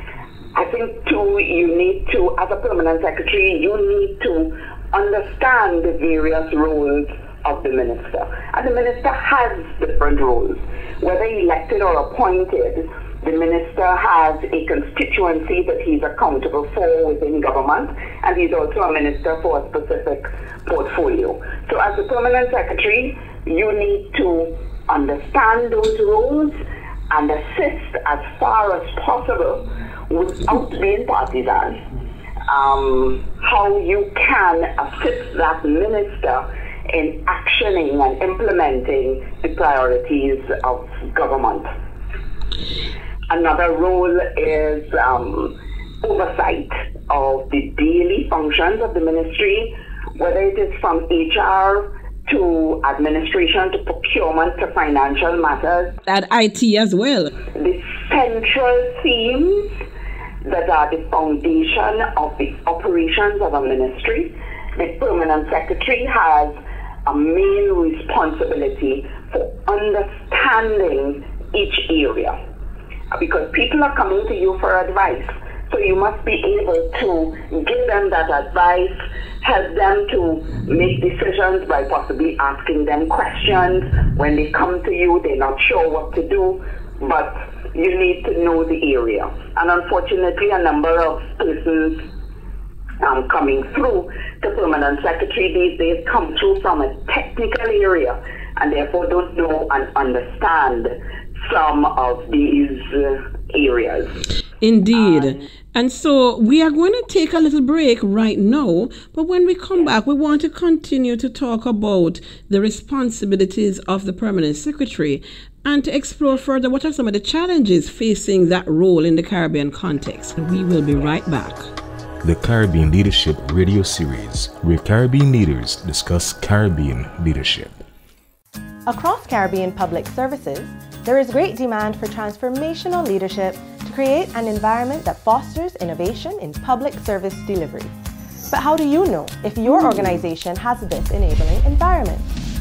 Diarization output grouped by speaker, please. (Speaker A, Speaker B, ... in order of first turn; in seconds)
Speaker A: 0.6-26.6, 27.1-31.8, 32.5-41.7, 43.3-55.9, 57.5-59.7, 60.4-66.5, 67.1-72.3, 73.1-92.0, 93.0-104.2
Speaker B: 56.1-57.3, 104.6-121.7
Speaker C: 122.2-127.8
Speaker D: 128.9-137.9, 138.5-142.3